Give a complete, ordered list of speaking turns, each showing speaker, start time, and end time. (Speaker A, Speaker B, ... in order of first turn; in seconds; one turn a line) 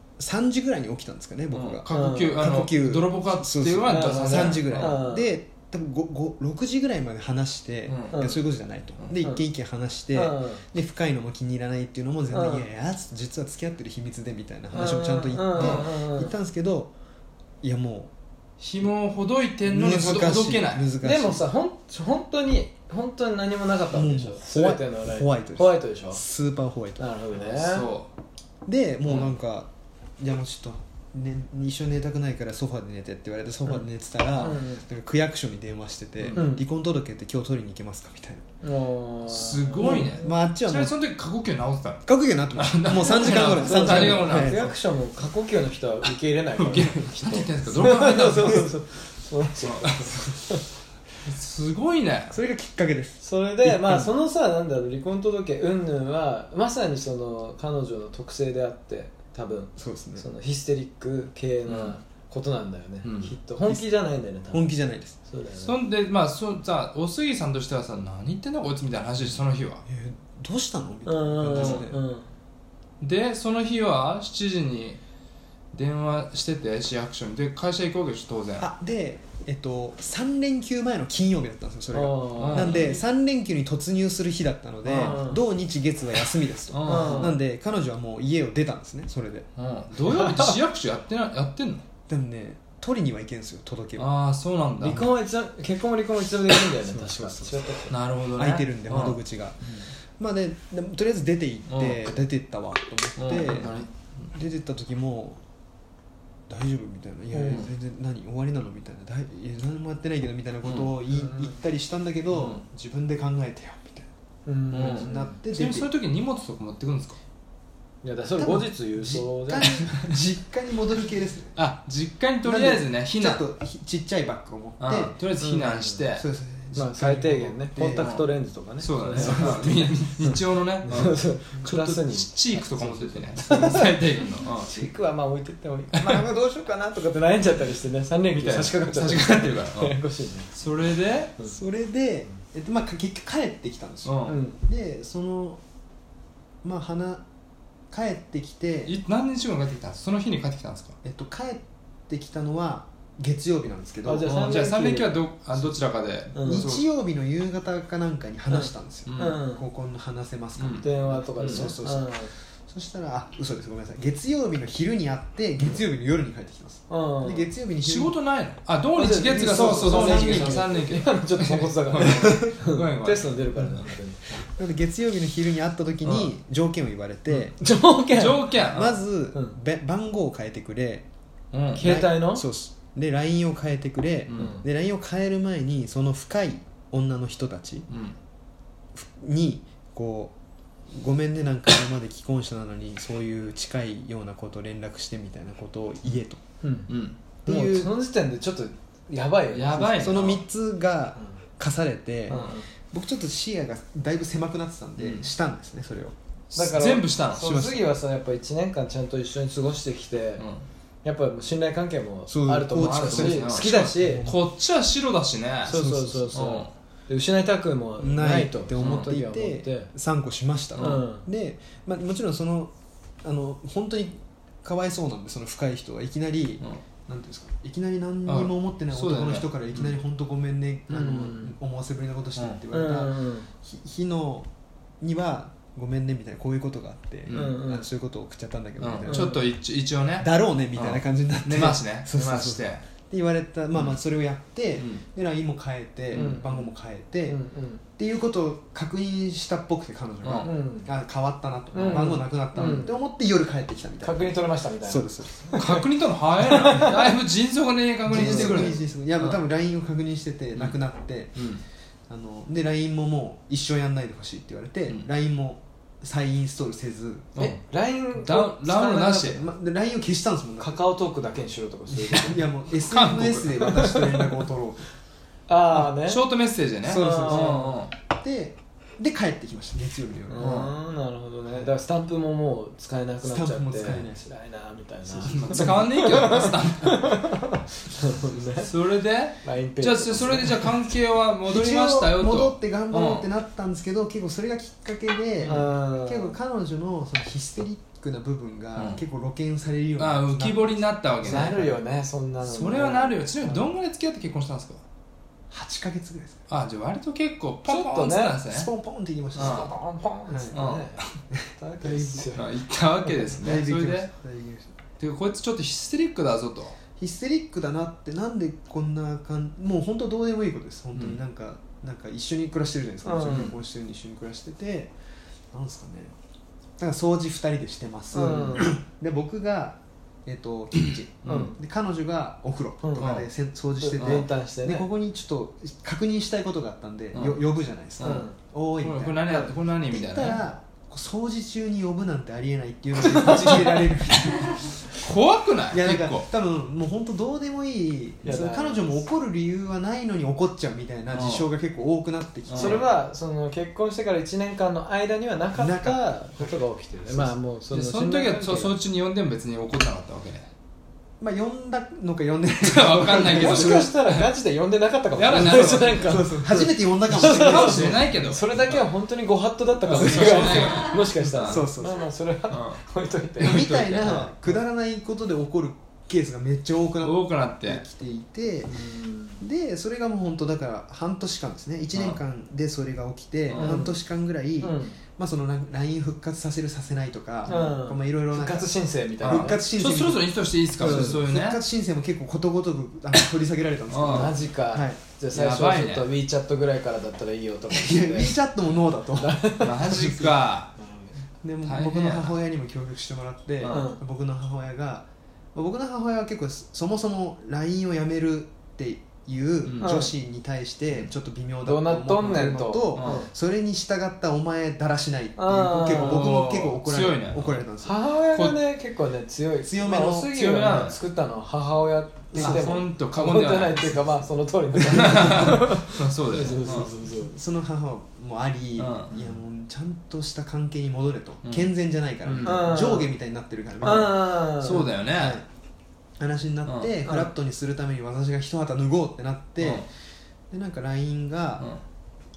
Speaker A: 0.2-16.9
Speaker B: 1.5-5.0
Speaker C: 1.9-2.5
Speaker C: 3.9-5.3
Speaker B: 7.9-8.2
Speaker C: 8.1-8.4
Speaker C: 10.1-10.6
Speaker C: 12.3-12.6
Speaker C: 14.7-16.3
Speaker B: 15.6-15.9
Speaker A: 17.6-18.1
Speaker B: 18.6-20.8
Speaker A: 19.7-21.4
Speaker C: 21.0-26.2
Speaker A: 23.9-27.0
Speaker C: 27.0-27.9
Speaker B: 27.4-28.1
Speaker A: 28.6-38.4
Speaker B: 29.1-29.3
Speaker C: 34.4-34.8
Speaker C: 36.3-36.6
Speaker C: 38.6-40.3
Speaker B: 39.3-42.0
Speaker A: 39.8-41.0
Speaker A: 42.1-44.7
Speaker B: 42.5-44.7
Speaker C: 43.2-50.6
Speaker B: 46.6-48.7
Speaker B: 49.6-50.1
Speaker B: 51.2-52.4
Speaker A: 52.3-54.1
Speaker C: 53.2-64.7
Speaker A: 59.8-60.2
Speaker B: 61.7-62.0
Speaker B: 63.0-63.3
Speaker A: 64.5-65.2
Speaker C: 65.3-65.8
Speaker B: 65.6-69.8
Speaker A: 69.8-72.0
Speaker C: 71.1-72.3
Speaker B: 71.5-71.8
Speaker B: 73.0-75.0
Speaker B: 75.7-78.7
Speaker A: 78.6-89.5
Speaker C: 81.9-82.9
Speaker B: 82.4-83.0
Speaker C: 84.8-85.4
Speaker B: 86.7-87.3
Speaker C: 86.9-87.3
Speaker B: 89.6-91.8
Speaker C: 90.0-90.6
Speaker A: 92.1-94.1
Speaker B: 94.0-95.1
Speaker C: 94.8-97.9
Speaker A: 97.0-97.8
Speaker B: 97.9-99.2
Speaker A: 98.4-99.6
Speaker A: 100.2-105.4
Speaker B: 101.7-102.1
Speaker B: 103.2-104.3
Speaker A: 106.5-114.1
Speaker C: 107.3-107.6
Speaker B: 110.6-110.9
Speaker C: 111.1-111.5
Speaker B: 112.3-112.6
Speaker C: 114.5-115.4
Speaker A: 114.7-115.9
Speaker B: 114.7-117.2
Speaker C: 118.0-119.9
Speaker A: 118.4-121.6
Speaker B: 119.9-120.1
Speaker B: 121.6-123.4
Speaker A: 122.5-125.2
Speaker B: 124.8-126.2
Speaker C: 125.4-126.0
Speaker A: 126.2-128.1
Speaker C: 126.8-136.3
Speaker B: 127.9-128.3
Speaker B: 128.8-134.7
Speaker A: 129.2-129.9
Speaker A: 136.0-137.1
Speaker C: 136.8-140.5
Speaker B: 138.3-139.9
Speaker B: 140.5-141.3
Speaker A: 141.4-145.6
Speaker B: 144.1-144.4
Speaker C: 144.2-144.6
Speaker A: 146.6-147.2
Speaker A: 147.9-148.9
Speaker B: 148.9-151.0
Speaker A: 151.0-154.4
Speaker C: 154.0-155.1
Speaker B: 154.2-156.8
Speaker C: 156.3-156.7
Speaker A: 156.4-168.2
Speaker C: 158.5-159.6
Speaker B: 159.1-159.4
Speaker B: 160.6-160.9
Speaker C: 160.8-162.3
Speaker B: 161.4-161.7
Speaker C: 166.9-167.5
Speaker B: 167.8-173.7
Speaker C: 168.9-174.4
Speaker A: 169.4-170.7
Speaker A: 172.2-172.5
Speaker A: 174.4-177.6
Speaker B: 176.1-176.3
Speaker C: 177.5-178.5
Speaker B: 178.1-179.0
Speaker A: 178.7-181.1
Speaker B: 181.5-181.9
Speaker C: 181.8-182.5
Speaker A: 181.8-187.9
Speaker B: 184.3-184.6
Speaker C: 184.4-184.6
Speaker B: 187.9-188.2
Speaker A: 188.9-190.4
Speaker A: 190.9-196.4
Speaker C: 196.6-196.9
Speaker B: 196.9-197.2
Speaker C: 197.4-200.0
Speaker A: 197.5-197.9
Speaker B: 199.5-200.4
Speaker A: 199.8-206.2
Speaker C: 202.3-202.7
Speaker B: 206.5-207.5
Speaker C: 206.6-210.5
Speaker A: 207.4-207.9
Speaker C: 211.0-214.3
Speaker A: 212.3-214.4
Speaker B: 212.8-215.8
Speaker A: 215.7-216.4
Speaker C: 215.7-219.9
Speaker B: 216.3-216.7
Speaker A: 218.0-234.5
Speaker B: 218.8-219.1
Speaker B: 220.8-221.0
Speaker C: 220.8-221.2
Speaker B: 228.3-229.9
Speaker C: 230.9-231.6
Speaker C: 232.7-233.5
Speaker A: 235.0-239.4
Speaker B: 237.3-237.6
Speaker C: 237.3-237.9
Speaker B: 238.8-242.8
Speaker C: 239.1-239.5
Speaker A: 240.2-247.4
Speaker B: 244.8-245.0
Speaker B: 246.1-246.4
Speaker C: 246.1-246.7
Speaker C: 247.3-247.8
Speaker A: 248.0-255.8
Speaker B: 250.2-250.5
Speaker C: 250.4-250.9
Speaker C: 251.7-253.0
Speaker B: 251.8-252.1
Speaker C: 254.0-255.8
Speaker B: 255.6-259.4
Speaker C: 256.4-257.1
Speaker A: 258.1-261.5
Speaker C: 258.1-258.7
Speaker A: 262.1-267.4
Speaker C: 267.4-269.4
Speaker B: 268.1-269.4
Speaker A: 269.2-270.8
Speaker C: 270.6-272.5
Speaker A: 271.9-274.8
Speaker B: 272.9-273.9
Speaker C: 275.5-276.2
Speaker B: 275.7-277.9
Speaker A: 276.8-280.6
Speaker C: 276.9-277.8
Speaker C: 280.3-288.7
Speaker B: 280.4-280.7
Speaker A: 283.2-284.2
Speaker A: 285.2-285.9
Speaker B: 285.3-287.1
Speaker B: 288.6-293.3
Speaker C: 289.4-290.7
Speaker A: 291.5-301.8
Speaker B: 295.4-295.7
Speaker C: 295.5-296.4
Speaker B: 298.8-299.0
Speaker B: 300.0-301.7
Speaker C: 301.2-303.2
Speaker B: 302.4-304.8
Speaker A: 303.4-303.7
Speaker A: 305.5-306.4
Speaker B: 306.5-308.7
Speaker C: 307.6-308.4
Speaker A: 308.5-309.7
Speaker C: 309.4-311.0
Speaker B: 309.4-309.7
Speaker A: 310.3-310.6
Speaker B: 310.5-311.1
Speaker A: 311.3-312.3
Speaker C: 311.6-312.5
Speaker B: 312.3-314.1
Speaker A: 313.4-314.8
Speaker B: 315.0-316.8
Speaker A: 317.0-324.9
Speaker C: 323.0-323.6
Speaker A: 325.5-326.1
Speaker A: 326.8-344.9
Speaker C: 328.1-328.8
Speaker B: 331.2-331.5
Speaker C: 331.3-331.6
Speaker C: 332.8-333.1
Speaker B: 333.0-333.3
Speaker C: 333.8-334.9
Speaker B: 334.0-334.3
Speaker B: 337.1-337.4
Speaker B: 338.0-338.3
Speaker C: 338.0-338.4
Speaker B: 338.8-340.4
Speaker C: 343.1-343.6
Speaker B: 344.9-346.3
Speaker A: 345.7-352.8
Speaker C: 348.2-348.9
Speaker B: 351.1-351.5
Speaker B: 352.5-352.9
Speaker C: 352.6-358.7
Speaker A: 355.6-357.3
Speaker B: 357.7-360.5
Speaker A: 361.2-363.9
Speaker B: 362.6-364.3
Speaker C: 363.3-373.9
Speaker B: 365.2-366.1
Speaker A: 365.3-368.0
Speaker B: 367.1-368.8
Speaker B: 369.9-371.6
Speaker A: 370.0-370.8
Speaker A: 371.5-372.0
Speaker B: 372.5-372.8
Speaker B: 373.4-374.5
Speaker A: 373.4-378.8
Speaker B: 377.0-377.8
Speaker C: 378.7-379.4
Speaker A: 379.4-388.7
Speaker B: 383.5-383.8
Speaker C: 383.6-384.0
Speaker C: 384.6-385.0
Speaker C: 387.5-389.6
Speaker B: 389.2-391.6
Speaker A: 389.2-395.0
Speaker B: 393.9-394.4
Speaker C: 394.1-398.4
Speaker B: 395.3-396.1
Speaker A: 397.7-400.4
Speaker C: 399.2-400.1
Speaker B: 399.6-400.7
Speaker C: 400.8-401.1
Speaker A: 401.4-418.0
Speaker B: 401.6-402.4
Speaker B: 403.6-403.9
Speaker C: 403.7-404.0
Speaker B: 409.6-410.0
Speaker C: 409.8-410.1
Speaker C: 411.6-413.3
Speaker B: 412.9-413.2
Speaker C: 415.4-416.3
Speaker B: 415.9-417.6
Speaker C: 417.8-427.4
Speaker B: 418.2-418.6
Speaker A: 419.6-420.3
Speaker B: 420.3-421.0
Speaker A: 422.3-422.8
Speaker B: 422.3-424.0
Speaker A: 424.8-425.8
Speaker B: 424.9-426.9
Speaker A: 427.1-435.5
Speaker B: 428.8-429.1
Speaker B: 431.4-431.7
Speaker B: 432.3-432.6
Speaker C: 432.3-433.1
Speaker C: 433.8-434.9
Speaker B: 433.8-435.4
Speaker A: 436.2-439.9
Speaker B: 436.7-436.9
Speaker B: 439.6-439.9
Speaker A: 440.5-441.7